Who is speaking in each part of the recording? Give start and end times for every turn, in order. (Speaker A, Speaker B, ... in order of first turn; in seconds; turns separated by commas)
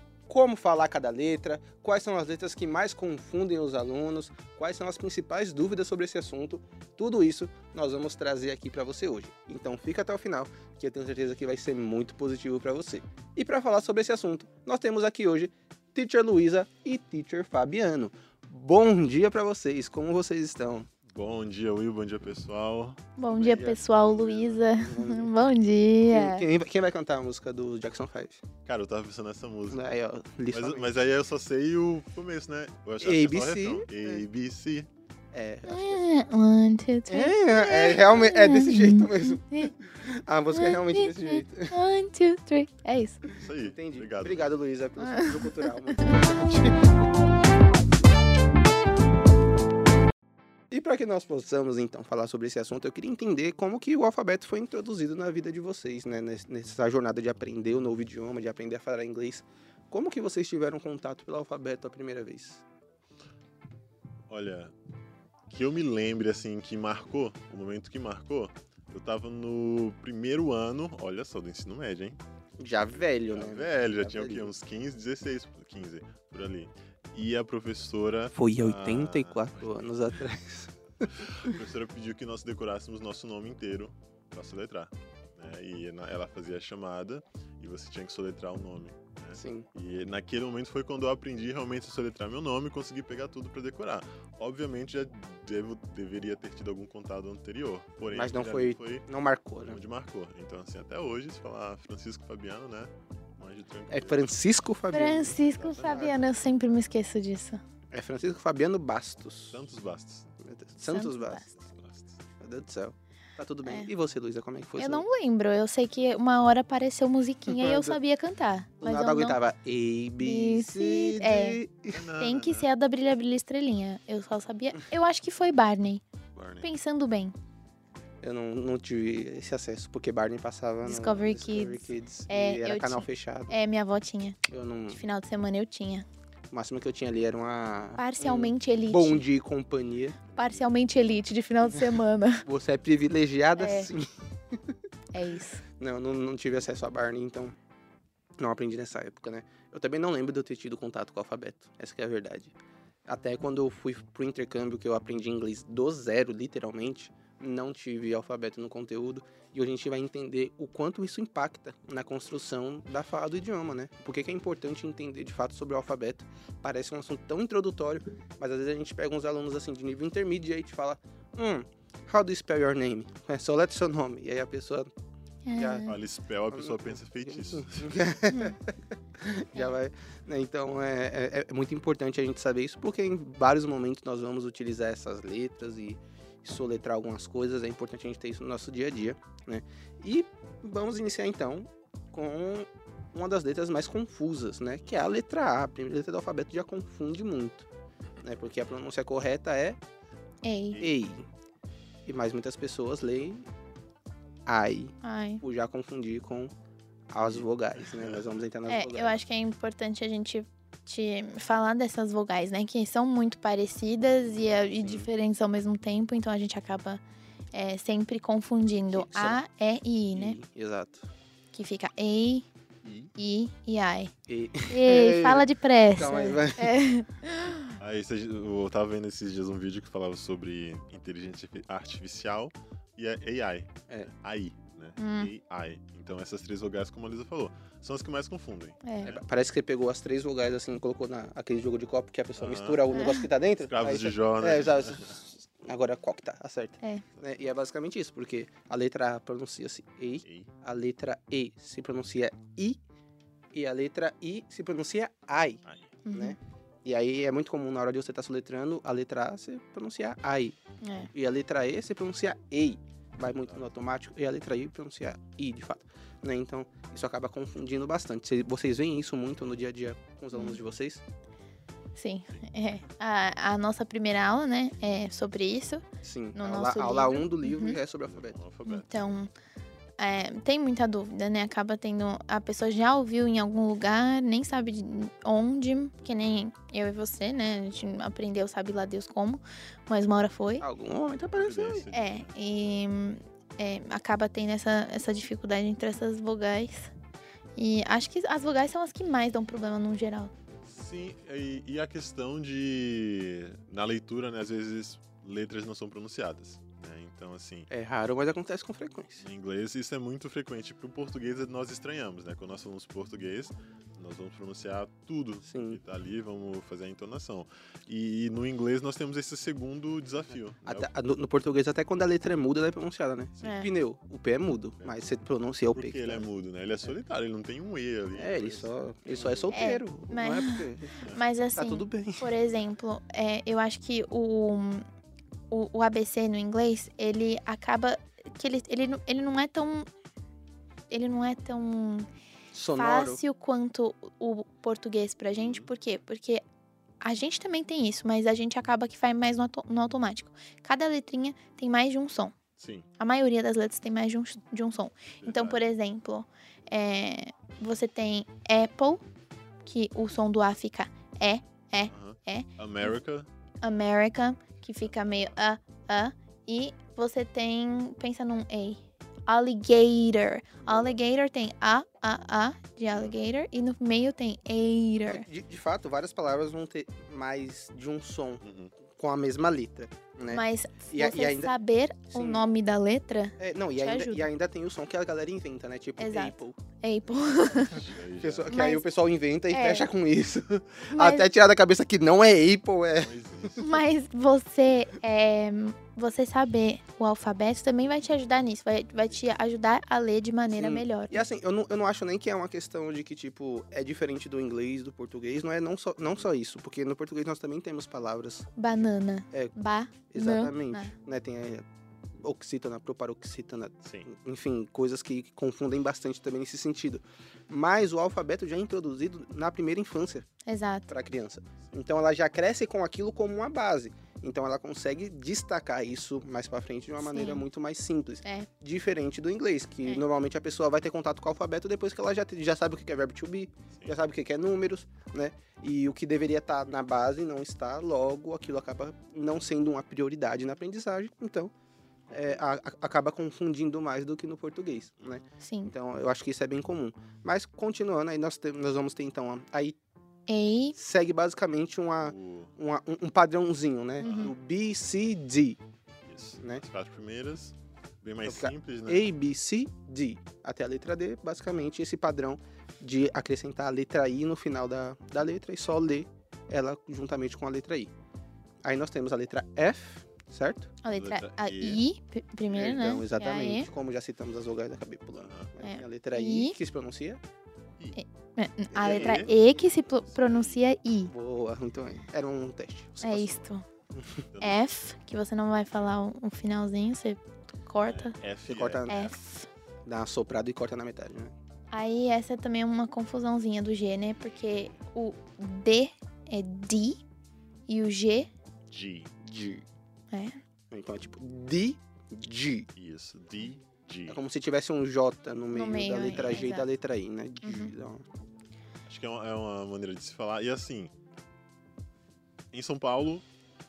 Speaker A: 0.3-20.9, Speaker B: 21.1-24.6, Speaker C: 23.2-26.4, Speaker A: 23.3-23.8, Speaker A: 24.7-25.5, Speaker A: 26.1-28.4, Speaker B: 28.6-29.9, Speaker A: 29.7-31.0, Speaker B: 30.5-34.9, Speaker A: 33.0-34.2, Speaker A: 35.3-36.1, Speaker C: 35.7-39.7, Speaker A: 37.1-41.8, Speaker C: 40.5-43.2, Speaker B: 43.3-44.5, Speaker A: 43.6-46.9, Speaker C: 45.0-46.2, Speaker A: 50.7-62.6, Speaker B: 64.3-64.7, Speaker B: 65.5-72.2, Speaker A: 72.6-74.5, Speaker B: 72.9-80.2, Speaker A: 78.3-81.6, Speaker B: 81.0-99.0, Speaker A: 89.3-89.7, Speaker A: 98.1-99.8, Speaker B: 99.7-104.2, Speaker A: 103.9-106.1, Speaker C: 104.9-107.6, Speaker B: 105.4-106.3, Speaker A: 107.9-109.6, Speaker B: 109.5-110.3, Speaker A: 110.4-111.5, Speaker C: 110.8-111.5, Speaker B: 111.5-112.2, Speaker A: 112.4-115.0, Speaker C: 113.6-113.9, Speaker C: 114.8-119.4, Speaker A: 117.5-118.0, Speaker A: 118.8-122.0, Speaker C: 120.2-121.6, Speaker B: 121.9-122.7, Speaker C: 122.2-126.0, Speaker B: 126.3-126.7, Speaker C: 126.6-127.3, Speaker A: 128.2-133.6, Speaker C: 130.8-136.1, Speaker A: 134.5-135.0, Speaker A: 136.5-140.2, Speaker C: 138.0-139.2, Speaker B: 140.3-140.9, Speaker C: 140.3-142.4, Speaker A: 142.4-144.8, Speaker C: 143.6-143.9, Speaker C: 145.1-145.6, Speaker A: 145.8-147.6, Speaker A: 148.4-152.5, Speaker A: 153.1-174.9, Speaker C: 175.5-175.9, Speaker A: 175.6-175.9, Speaker B: 175.8-178.1, Speaker A: 176.5-197.7, Speaker A: 198.2-199.8, Speaker C: 200.4-200.8, Speaker A: 200.8-201.3, Speaker A: 202.1-203.5, Speaker A: 204.5-206.5, Speaker C: 205.0-205.4, Speaker A: 207.1-209.2, Speaker B: 207.3-208.4, Speaker C: 208.7-217.0, Speaker A: 214.8-215.1, Speaker C: 217.5-220.4, Speaker A: 218.9-219.4, Speaker A: 220.1-221.1, Speaker C: 221.5-222.5, Speaker B: 222.8-223.1, Speaker C: 223.2-224.1, Speaker A: 224.3-226.8, Speaker C: 224.7-227.8, Speaker B: 227.8-239.2, Speaker C: 235.0-235.3, Speaker C: 238.8-239.2, Speaker A: 239.0-252.8, Speaker B: 242.4-242.9, Speaker C: 242.9-243.3, Speaker B: 243.6-245.2, Speaker B: 247.2-247.5, Speaker B: 250.2-250.5, Speaker A: 253.5-255.6, Speaker B: 255.7-255.9, Speaker C: 256.0-256.4, Speaker A: 256.1-260.6, Speaker C: 260.8-261.1, Speaker A: 261.1-271.0, Speaker B: 263.4-263.7, Speaker C: 270.3-270.6, Speaker C: 271.9-277.8, Speaker A: 276.0-278.4, Speaker B: 278.0-279.2, Speaker C: 278.6-279.3, Speaker C: 280.0-290.6, Speaker A: 290.6-291.9, Speaker B: 291.3-292.3, Speaker C: 291.9-296.9, Speaker C: 297.6-300.3, Speaker B: 300.6-307.7, Speaker A: 307.7-309.2, Speaker B: 309.2-320.9, Speaker A: 315.4-315.8, Speaker A: 320.6-326.2, Speaker C: 323.4-323.7, Speaker B: 324.8-325.2, Speaker B: 325.7-329.6, Speaker A: 328.1-331.0, Speaker C: 329.5-334.8, Speaker A: 331.6-332.3, Speaker C: 335.5-339.9, Speaker C: 340.9-342.1, Speaker A: 342.5-343.2, Speaker C: 342.8-346.4, Speaker B: 345.3-345.7, Speaker C: 347.0-352.3, Speaker B: 352.6-352.9, Speaker C: 353.0-359.0, Speaker B: 355.2-355.6, Speaker C: 359.6-362.9, Speaker B: 361.9-363.3, Speaker C: 363.6-375.2, Speaker B: 364.8-365.4, Speaker A: 370.6-370.9, Speaker A: 375.1-378.4, Speaker B: 378.4-378.7, Speaker A: 378.9-381.5, Speaker C: 380.3-384.3, Speaker A: 382.1-382.4, Speaker A: 383.4-386.6, Speaker C: 386.0-387.9, Speaker B: 387.4-388.5, Speaker A: 388.2-393.5, Speaker C: 388.5-388.8, Speaker C: 389.5-389.9, Speaker C: 390.9-391.3, Speaker B: 393.0-393.8, Speaker C: 393.6-401.2, Speaker A: 400.5-408.6, Speaker C: 408.6-410.9, Speaker A: 410.1-411.6, Speaker A: 412.2-420.3, Speaker B: 413.8-414.1, Speaker C: 420.4-420.9, Speaker A: 420.9-441.5, Speaker C: 427.0-427.4, Speaker A: 442.1-449.8, Speaker B: 442.1-442.4, Speaker C: 445.4-445.7, Speaker C: 450.3-450.8, Speaker A: 450.8-455.6, Speaker B: 452.0-452.5, Speaker C: 454.0-454.3, Speaker B: 454.0-454.3, Speaker B: 456.0-459.1, Speaker A: 458.2-467.9, Speaker A: 468.6-470.7, Speaker C: 470.8-473.7, Speaker B: 470.9-471.8, Speaker A: 472.5-477.2, Speaker B: 475.2-475.5, Speaker C: 475.6-476.6, Speaker C: 477.9-481.1, Speaker A: 478.7-479.3, Speaker B: 478.8-480.6, Speaker A: 481.1-483.4, Speaker C: 483.0-483.6, Speaker A: 483.9-484.2, Speaker B: 484.3-484.6, Speaker C: 484.4-488.2, Speaker B: 487.9-488.9, Speaker A: 488.5-489.1, Speaker C: 488.9-489.5, Speaker A: 489.8-491.3, Speaker C: 491.7-497.0, Speaker B: 494.2-494.8, Speaker C: 497.7-498.3, Speaker B: 498.7-499.1, Speaker A: 499.2-499.6, Speaker C: 500.1-500.4, Speaker A: 500.7-502.7, Speaker B: 502.8-504.2, Speaker A: 504.1-508.0, Speaker C: 505.5-506.7, Speaker B: 506.1-506.4, Speaker C: 507.4-507.7, Speaker B: 508.9-510.9, Speaker B: 512.5-513.2